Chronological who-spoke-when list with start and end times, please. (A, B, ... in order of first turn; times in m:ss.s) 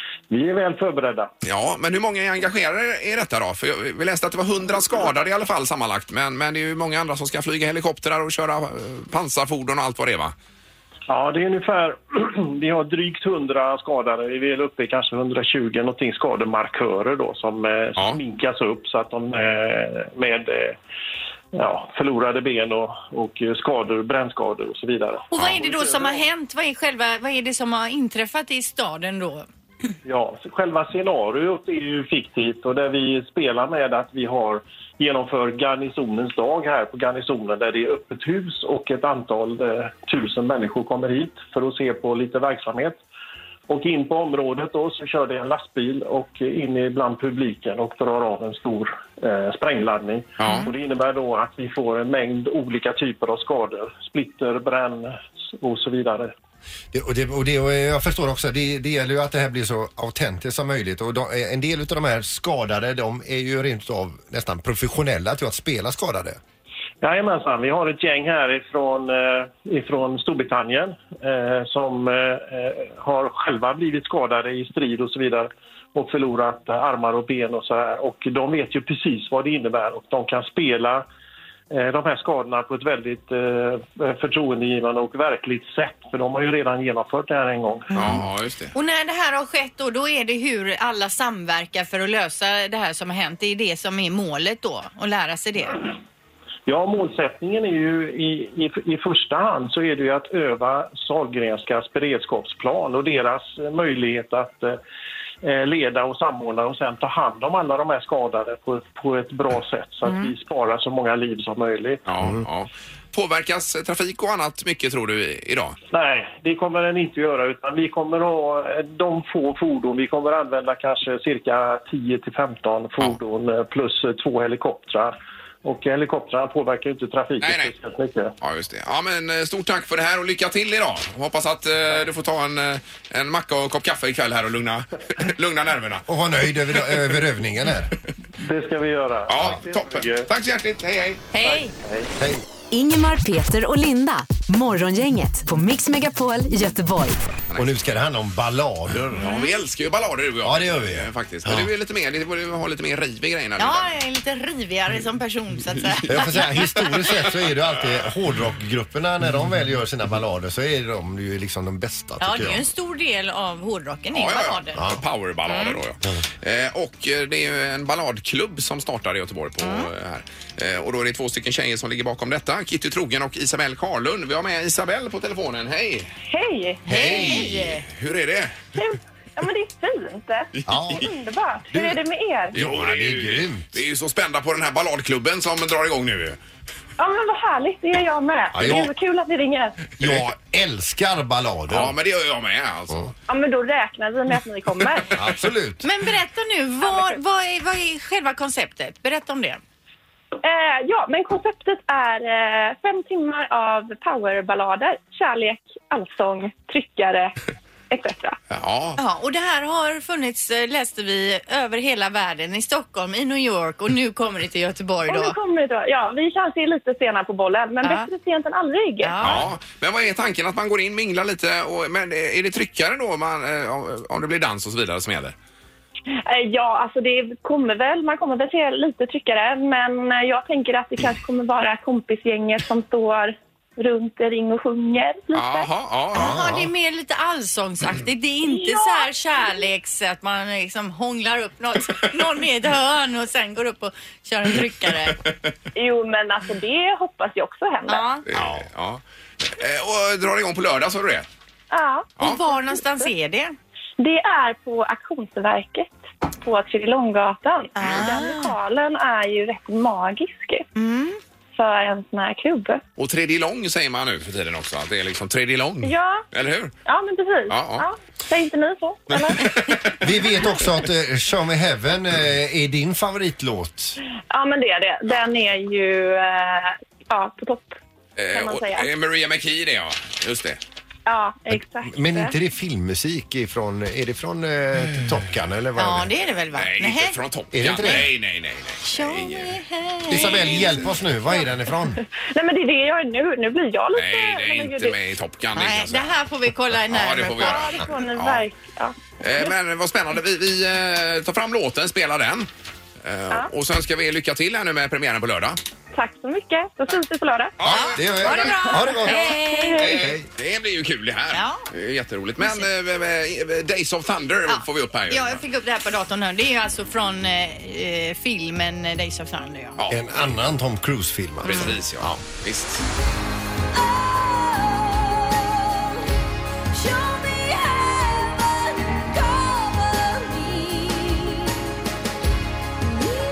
0:00.3-0:01.3 A
0:01.4-0:10.3 B
0:11.1-0:20.8 A
0:21.5-0:26.2 A
0:25.3-0:29.5 C
0:30.0-0:43.0 A
0:43.7-0:56.3 A
0:50.4-0:50.7 B
0:56.9-1:06.4 D
1:07.0-1:21.0 A
1:21.7-1:27.9 A
1:27.9-1:28.2 C
1:27.9-1:28.7 B
1:28.7-1:35.9 C
1:36.7-1:44.8 A
1:45.4-1:52.0 A
1:52.1-1:55.8 B
1:55.9-2:08.3 A
2:07.4-2:07.7 B
2:08.4-2:16.1 B
2:16.1-2:17.9 D
2:16.7-2:17.2 B
2:18.4-2:20.3 A
2:19.3-2:21.2 B
2:21.4-2:21.7 C
2:21.4-2:22.1 A
2:22.2-2:22.4 D
2:22.7-2:27.2 E
2:27.6-2:29.2 D
2:29.1-2:33.9 B
2:29.2-2:29.5 C
2:30.4-2:31.7 D
2:33.6-2:37.0 C
2:36.0-2:36.4 B
2:36.1-2:42.6 D
2:42.2-2:44.8 C
2:44.1-2:56.1 B
2:45.4-2:45.8 C
2:49.6-2:49.9 C
2:56.3-2:56.8 F
2:56.9-2:57.7 D
2:56.9-2:57.8 C
2:56.9-2:58.7 B
2:58.7-3:02.5 F
3:00.6-3:01.0 B
3:00.7-3:01.0 D
3:01.7-3:02.0 D
3:02.5-3:06.4 B
3:02.5-3:03.7 D
3:07.0-3:09.8 F
3:08.5-3:08.9 D
3:10.0-3:11.9 D
3:11.7-3:13.1 B
3:13.3-3:15.1 F
3:15.1-3:15.8 D
3:15.8-3:19.6 C
3:16.8-3:17.2 F
3:20.4-3:27.4 F
3:27.9-3:28.4 F
3:28.5-3:29.0 B
3:29.0-3:35.4 C
3:35.0-3:39.2 F
3:37.8-3:38.1 C
3:39.0-3:39.5 C
3:39.2-3:45.3 B
3:46.1-3:55.7 F
3:55.3-3:56.4 B
3:56.1-3:56.7 D
3:56.1-4:05.2 C
3:58.4-3:59.7 F
4:05.7-4:08.2 F
4:07.8-4:08.2 C
4:08.2-4:11.3 B
4:11.7-4:13.1 F
4:12.2-4:13.5 C
4:14.0-4:20.6 F
4:17.8-4:18.5 C
4:20.7-4:21.2 C
4:21.5-4:22.8 F
4:23.0-4:26.7 B
4:25.8-4:26.2 F
4:26.8-4:29.5 F
4:27.5-4:27.9 B
4:29.1-4:30.0 B
4:30.0-4:34.0 D
4:34.3-4:37.8 F
4:38.2-4:40.6 B
4:38.3-4:38.9 F
4:41.0-4:42.3 F
4:41.5-4:46.1 D
4:45.8-4:47.2 C
4:46.5-4:49.6 B
4:47.5-4:48.1 D
4:48.8-4:50.8 C
4:50.1-4:52.0 D
4:50.1-4:50.6 B
4:51.9-4:55.0 F
4:53.9-4:56.1 B
4:55.5-4:57.9 C
4:56.9-4:58.4 B
4:57.4-4:59.5 F
4:59.2-5:02.5 B
5:03.0-5:05.6 B
5:05.9-5:07.5 F
5:07.6-5:08.6 B
5:07.6-5:09.8 C
5:07.9-5:09.2 D
5:08.2-5:09.9 F
5:09.6-5:15.4 B
5:09.9-5:10.2 D
5:11.3-5:11.6 C
5:12.4-5:12.7 C
5:14.5-5:19.8 C
5:19.8-5:20.3 B
5:19.9-5:22.2 D
5:21.4-5:22.8 B